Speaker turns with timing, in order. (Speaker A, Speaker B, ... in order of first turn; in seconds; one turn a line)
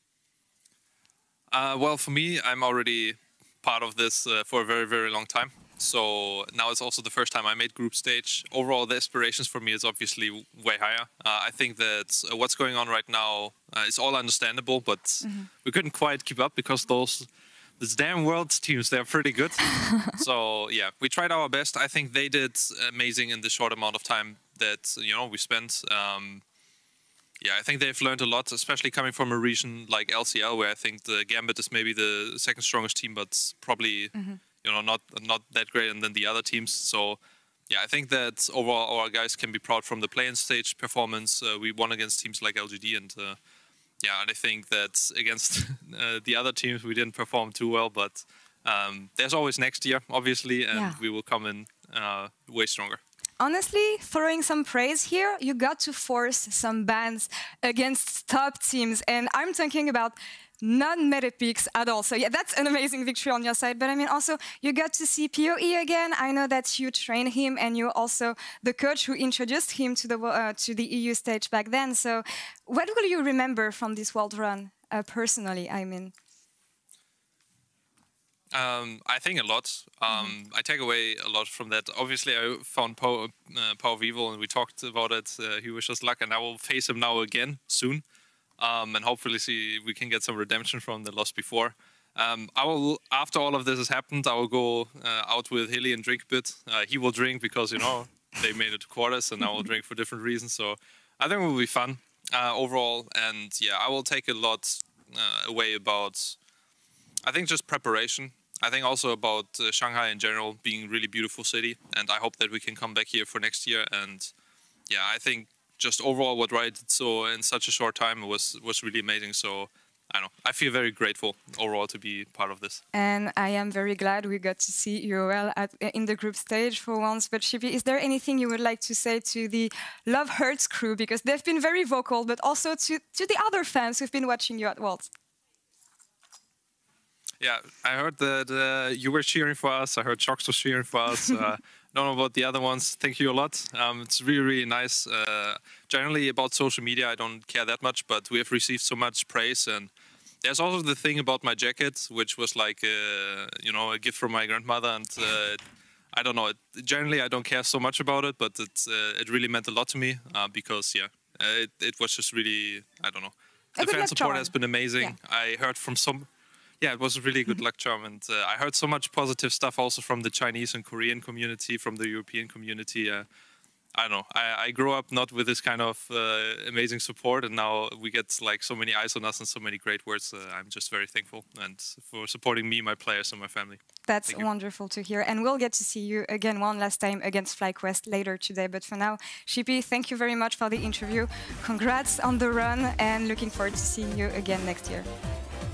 Speaker A: 1.5-17.3
Speaker B: 15.2-15.5
Speaker A: 17.8-26.4
Speaker B: 19.8-20.2
Speaker A: 27.4-37.2
Speaker A: 37.7-43.4
Speaker A: 44.0-53.0
Speaker B: 50.7-51.0
Speaker B: 53.4-76.1
Speaker A: 78.5-88.0
Speaker A: 88.6-106.4
Speaker A: 107.3-114.3
Speaker A: 114.9-122.8
Speaker B: 122.9-135.1
Speaker A: 137.4-149.9
Speaker A: 150.4-155.6
Speaker A: 156.1-166.3
Speaker B: 163.8-165.2
Speaker A: 166.8-173.3
Speaker A: 173.9-184.4
Speaker B: 184.1-195.1